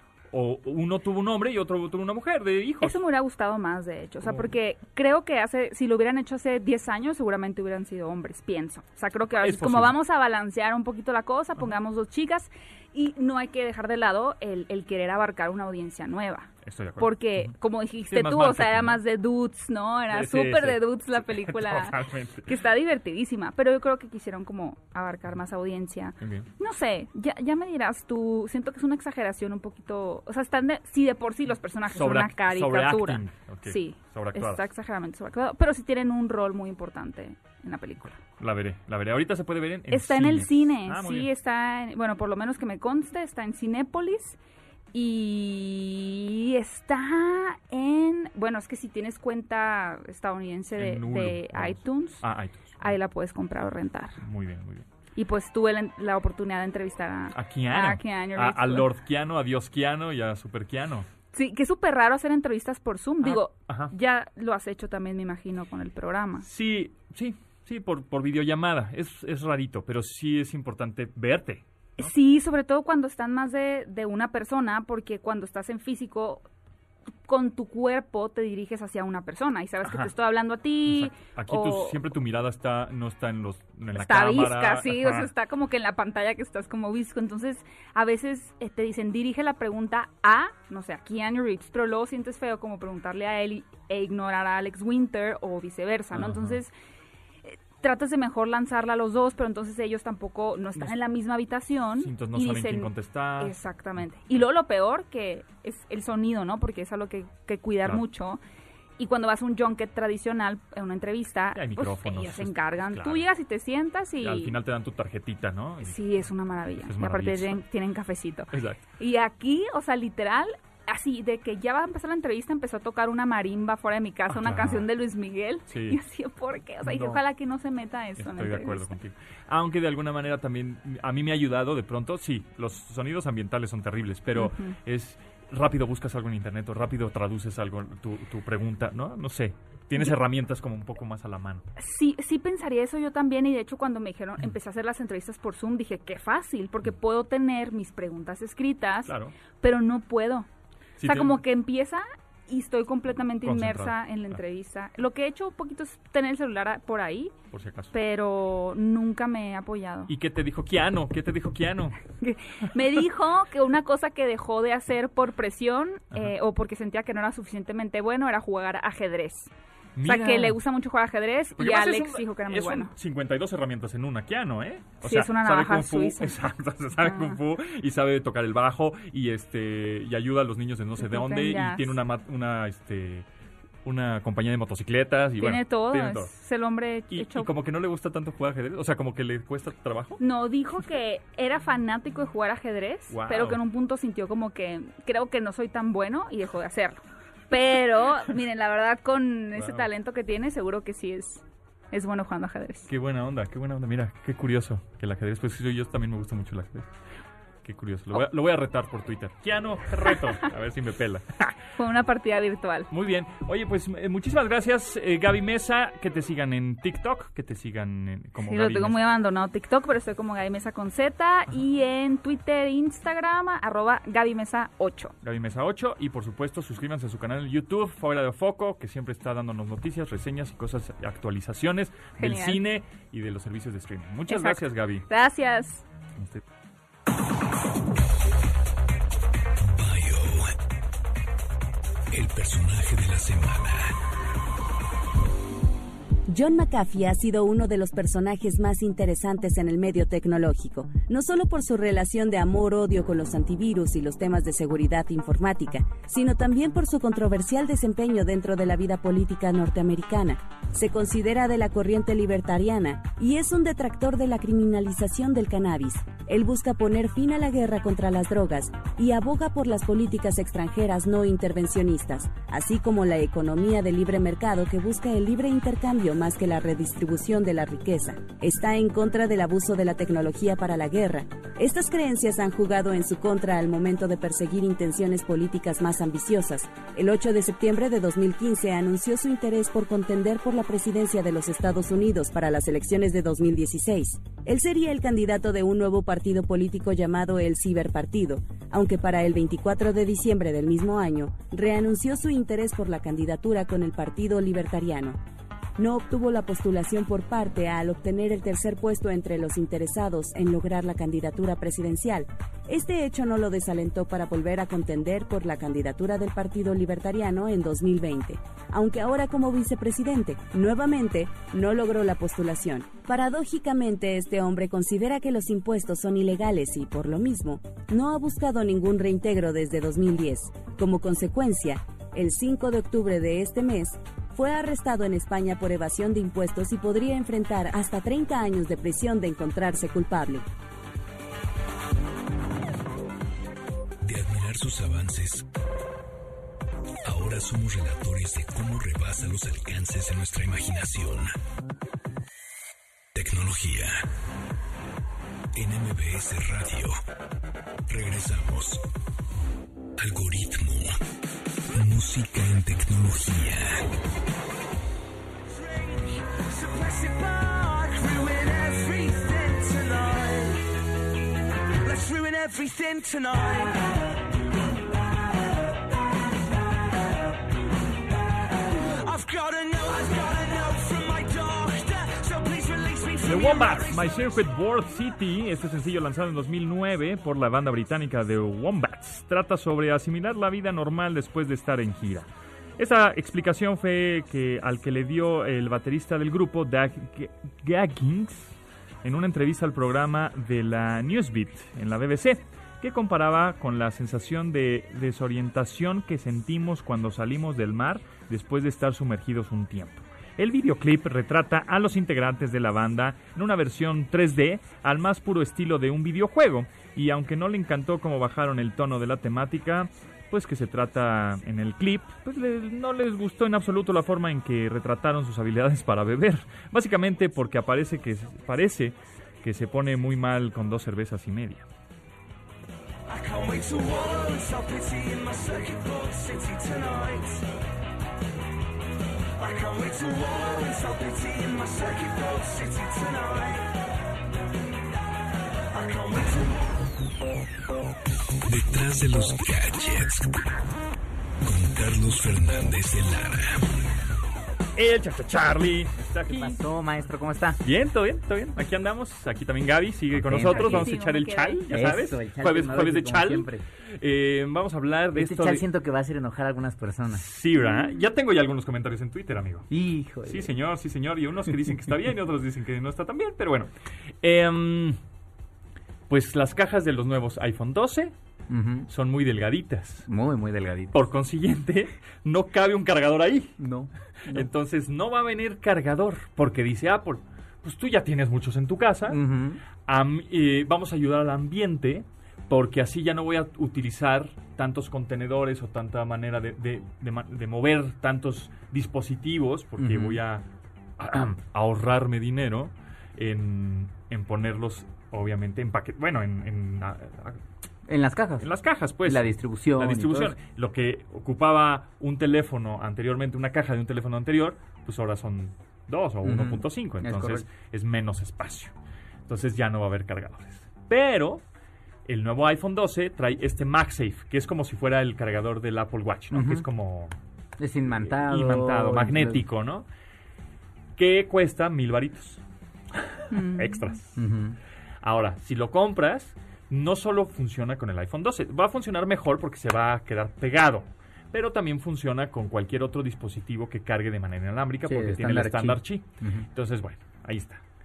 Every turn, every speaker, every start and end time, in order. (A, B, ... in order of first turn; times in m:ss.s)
0:00.3-0:03.0 A
0:02.8-0:38.2 B
0:04.2-0:04.5 A
0:09.4-0:10.0 A
0:16.6-0:17.6 A
0:18.1-0:19.0 A
0:20.1-0:22.6 A
0:26.2-0:26.5 A
0:31.9-0:34.7 A
0:38.4-0:41.3 A
0:39.9-0:44.4 B
0:44.9-0:52.2 B
0:50.8-0:53.0 A
0:52.8-0:54.2 B
0:54.2-0:54.9 A
0:55.2-0:58.9 B
0:57.3-1:01.1 A
1:01.3-1:06.5 B
1:03.2-1:03.9 A
1:06.4-1:12.1 A
1:12.0-1:16.5 B
1:17.3-1:22.0 B
1:19.8-1:20.1 A
1:20.8-1:25.3 A
1:23.9-1:36.7 B
1:36.1-1:36.6 A
1:37.4-1:48.4 B
1:42.0-1:43.6 A
1:49.0-1:54.6 B
1:51.5-1:53.3 A
1:54.2-1:56.0 A
1:55.8-2:08.9 B
1:56.8-1:57.6 A
1:58.5-1:58.8 A
2:04.3-2:04.9 A
2:05.7-2:06.0 A
2:06.8-2:07.2 A
2:08.2-2:21.7 A
2:14.4-2:14.8 B
2:21.8-2:30.5 B
2:29.0-2:29.4 A
2:31.0-2:31.4 A
2:31.0-2:37.3 B
2:33.4-2:34.4 A
2:37.5-2:38.0 A
2:37.9-2:40.1 B
2:40.1-2:42.0 A
2:42.2-2:49.5 B
2:46.1-2:46.4 A
2:50.0-2:50.6 A
2:50.0-2:52.9 B
2:51.6-3:03.3 A
2:55.0-2:56.4 B
2:57.0-2:57.4 B
3:01.0-3:01.9 B
3:03.8-3:06.3 A
3:05.4-3:07.5 B
3:07.1-3:10.2 A
3:10.2-3:22.9 B
3:13.1-3:13.6 A
3:19.5-3:19.9 A
3:22.9-3:26.9 A
3:27.6-3:31.6 A
3:31.8-3:32.9 B
3:32.9-3:39.0 A
3:38.4-3:45.1 B
3:45.2-3:55.1 A
3:52.2-3:52.6 B
3:54.3-3:55.8 B
3:56.2-3:56.4 A
3:59.6-4:00.5 C
4:02.1-4:04.0 C
4:06.3-5:05.2 D
5:05.8-5:40.4 D
5:44.0-5:45.5 C
5:47.0-5:51.4 C
5:53.1-5:54.0 C
5:55.6-5:57.0 C
5:57.9-5:58.8 C
6:00.0-6:01.0 C
6:01.7-6:03.9 C
6:05.5-6:10.6 E
6:11.8-6:13.9 E
6:18.9-6:24.2 E
6:23.2-6:32.3 A
6:32.8-7:11.7 A
7:13.1-7:17.4 E
7:19.4-7:23.6 E
7:25.7-7:26.7 E
7:28.5-7:30.3 C
7:31.4-7:33.6 C
7:34.8-7:36.6 A
7:36.2-7:37.6 F
7:37.6-7:45.6 A
7:40.1-7:40.9 F
7:40.4-7:41.6 B
7:41.7-7:43.6 F
7:45.2-7:47.3 F
7:47.1-7:49.7 A
7:49.7-7:50.5 F
7:50.2-7:53.7 A
7:54.2-7:55.0 A
7:56.1-7:58.1 A
7:58.5-7:58.9 F
7:58.9-8:00.1 A
8:00.1-8:00.9 F
8:00.9-8:03.6 A
8:03.6-8:04.5 F
8:04.3-8:09.2 A
8:09.1-8:09.6 F
8:09.8-8:20.4 A
8:19.8-8:20.2 F
8:21.0-8:27.4 A
8:27.9-8:28.5 F
8:28.4-8:38.7 A
8:29.0-8:30.4 F
8:36.2-8:37.5 F
8:39.3-8:41.4 A
8:42.1-8:47.2 A
8:46.3-8:46.7 F
8:47.6-8:49.4 F
8:47.9-8:49.9 A
8:51.0-8:52.4 A
8:53.1-8:54.3 A
8:53.3-8:53.8 B
8:54.2-8:54.6 F
8:55.0-9:07.6 A
9:04.9-9:06.5 F